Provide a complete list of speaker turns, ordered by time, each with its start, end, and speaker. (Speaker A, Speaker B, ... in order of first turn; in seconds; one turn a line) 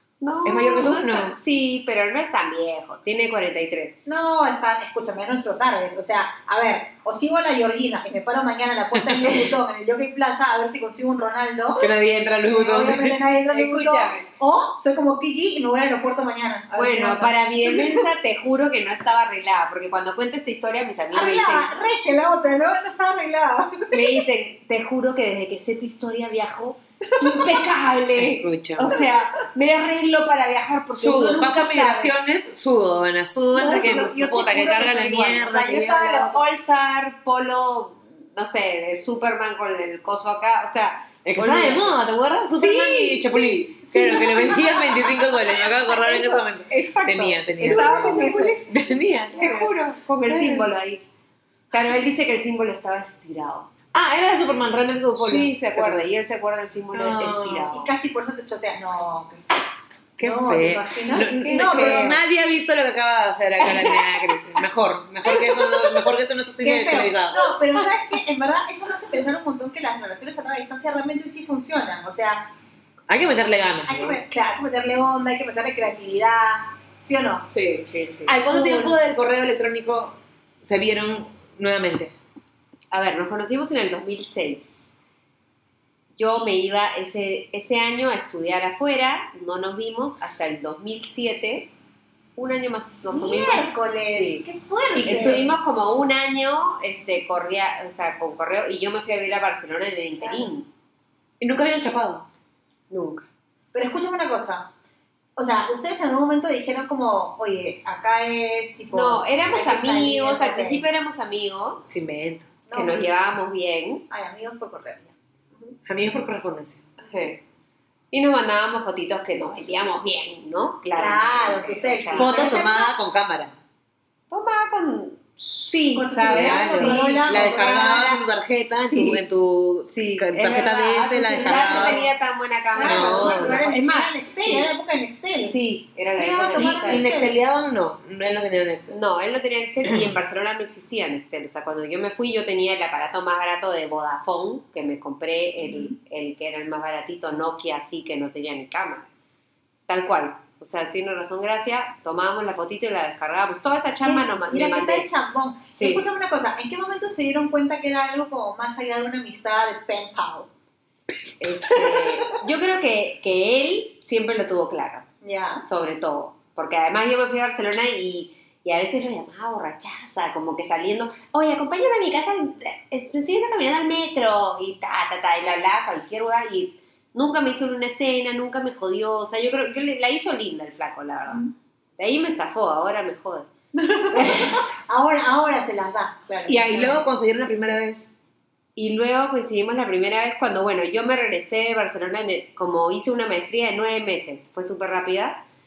Speaker A: 0.2-4.1
Speaker B: 0.5-1.4
Speaker C: 4.1-11.9
Speaker B: 11.8-13.2
Speaker C: 12.5-18.1
Speaker A: 13.5-14.2
Speaker A: 16.7-21.8
Speaker C: 21.1-24.2
Speaker A: 23.9-32.1
Speaker C: 27.2-27.5
Speaker B: 28.2-29.0
Speaker B: 30.9-36.4
Speaker A: 33.5-42.0
Speaker B: 41.2-49.7
Speaker A: 42.5-44.9
Speaker C: 44.0-45.0
Speaker A: 45.9-48.6
Speaker C: 47.6-48.7
Speaker A: 49.4-51.0
Speaker B: 50.3-50.7
Speaker A: 51.7-53.7
Speaker B: 53.9-56.0
Speaker A: 55.2-57.9
Speaker B: 56.9-57.7
Speaker C: 57.7-59.4
Speaker B: 60.2-67.6
Speaker C: 60.2-62.2
Speaker A: 61.4-62.2
Speaker A: 63.6-64.2
Speaker C: 66.6-72.5
Speaker B: 73.1-74.2
Speaker C: 73.9-77.5
Speaker B: 77.5-82.1
Speaker A: 77.8-78.4
Speaker C: 78.5-79.0
Speaker A: 82.9-84.7
Speaker A: 86.2-91.7
Speaker A: 92.4-94.5
Speaker C: 93.1-95.5
Speaker A: 95.0-100.7
Speaker B: 95.0-95.4
Speaker C: 100.2-100.5
Speaker B: 101.4-102.3
Speaker A: 102.9-103.3
Speaker C: 103.7-104.7
Speaker C: 105.4-110.8
Speaker A: 108.9-111.9
Speaker B: 111.9-112.5
Speaker C: 112.7-113.1
Speaker A: 112.7-114.0
Speaker C: 114.1-115.2
Speaker B: 115.9-116.8
Speaker A: 117.0-117.4
Speaker A: 118.1-122.6
Speaker C: 121.0-123.0
Speaker B: 122.2-123.5
Speaker A: 124.3-127.5
Speaker C: 125.9-128.2
Speaker B: 126.3-132.0
Speaker A: 128.9-129.2
Speaker A: 129.9-134.7
Speaker C: 131.3-132.1
Speaker C: 132.7-135.6
Speaker B: 132.8-133.6
Speaker A: 135.4-137.1
Speaker C: 136.2-137.3
Speaker B: 136.6-139.0
Speaker A: 138.9-149.1
Speaker C: 145.6-145.9
Speaker A: 149.9-155.1
Speaker C: 154.1-160.5
Speaker A: 155.8-156.1
Speaker A: 161.4-165.1
Speaker C: 165.2-165.7
Speaker A: 165.6-181.4
Speaker C: 181.3-181.5
Speaker A: 182.0-183.5
Speaker C: 183.7-187.0
Speaker A: 184.1-184.6
Speaker B: 186.5-188.1
Speaker A: 188.8-195.4